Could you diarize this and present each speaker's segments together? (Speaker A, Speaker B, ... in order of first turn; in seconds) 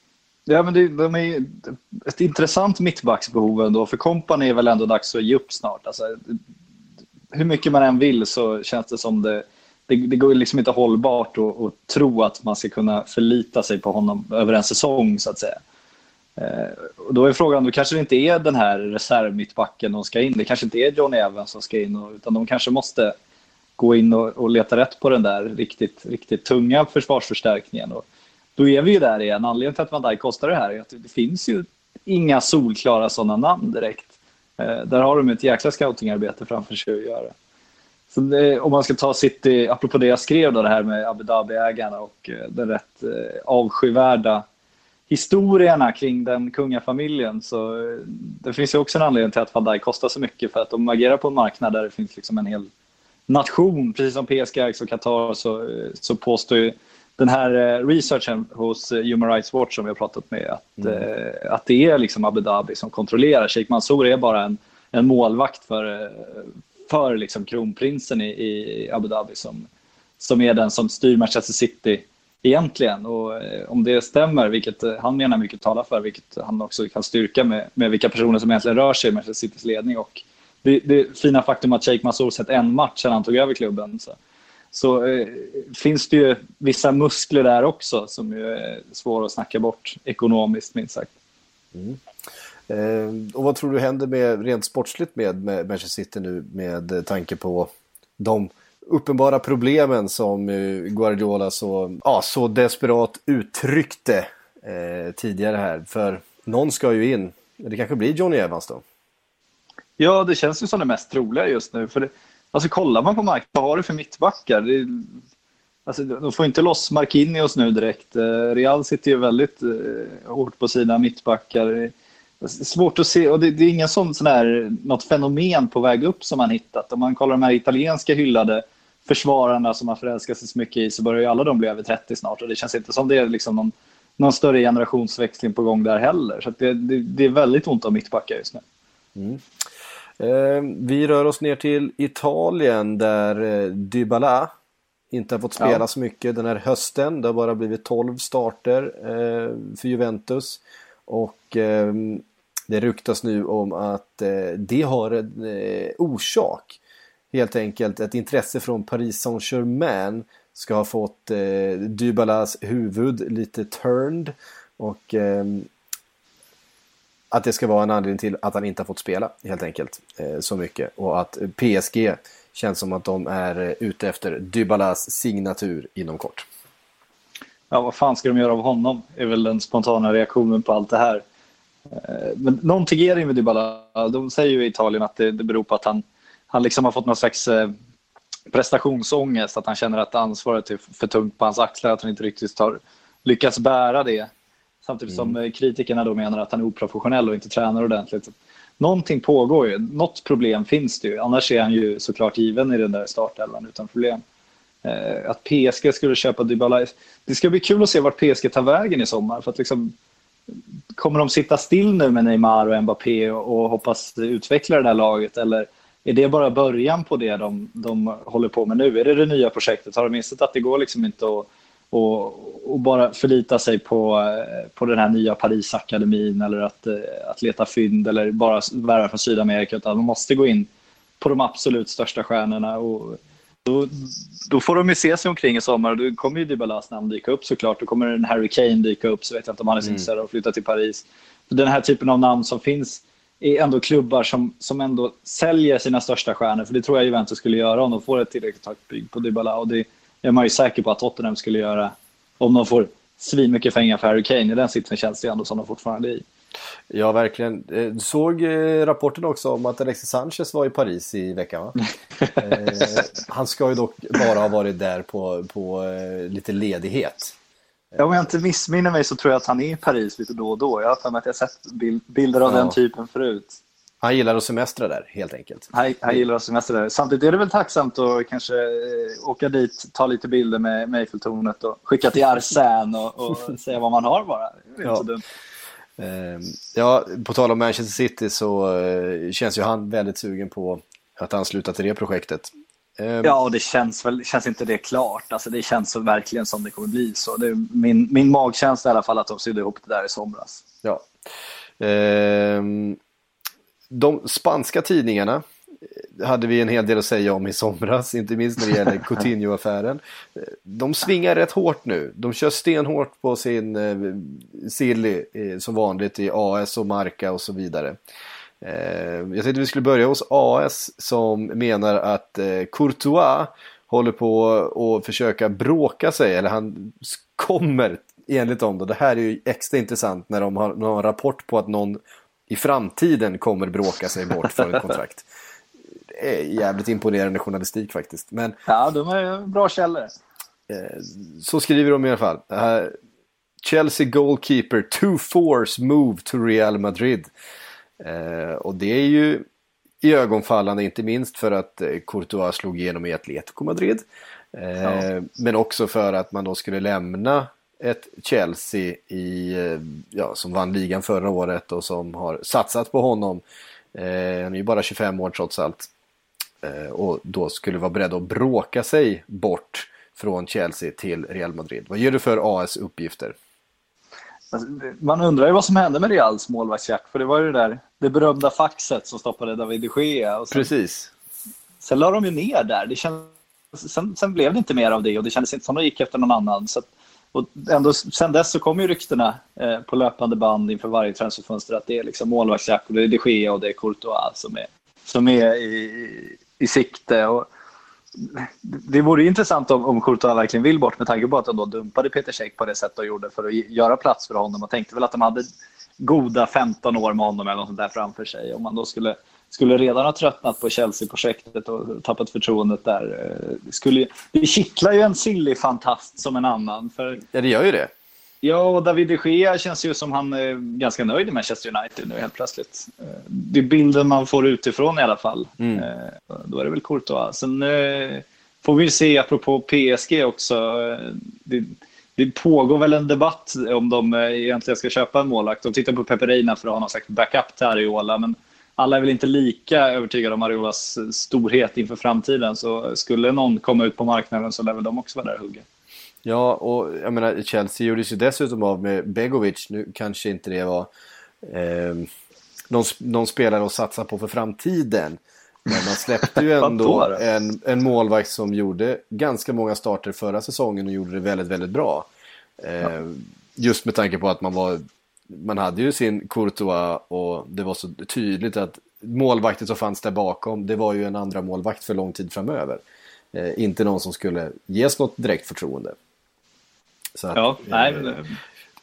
Speaker A: 0.5-6.4, 7.3-15.6, 16.4-23.1, 23.8-28.0, 28.6-37.3, 38.1-44.5, 45.1-52.7, 53.3-69.7, 70.2-84.2, 84.7-91.1, 110.0-115.1, 115.9-138.6, 177.7-181.2, 181.9-187.7, 188.5-194.3, 194.8-204.2, 204.8-209.9, 211.0-230.7, 231.2-256.2, 262.2-263.0, 268.0-273.6, 275.7-285.2, 293.2-300.6, 338.7-340.1, 374.5-380.7, 381.8-397.5, 398.3-405.5, 406.0-417.2, 418.4-445.6, 456.6-457.2, 477.3-478.4
Speaker B: 91.7-92.0, 92.7-108.8, 139.2-139.4, 140.2-144.5, 145.1-156.8, 157.3-165.7, 167.3-176.5, 195.1-195.3, 256.9-261.8, 262.4-267.4, 272.5-272.8, 274.0-276.2, 286.0-293.3, 301.8-303.0, 303.9-305.4, 306.0-318.0, 318.6-335.3, 336.1-338.6, 340.7-342.9, 343.6-347.3, 348.0-349.4, 350.0-363.4, 363.9-365.9, 366.6-373.4, 380.5-381.1, 417.3-417.9, 425.6-425.9, 446.2-450.9, 451.4-452.1, 452.7-462.1, 462.6-472.8, 473.3-476.0, 477.2-478.1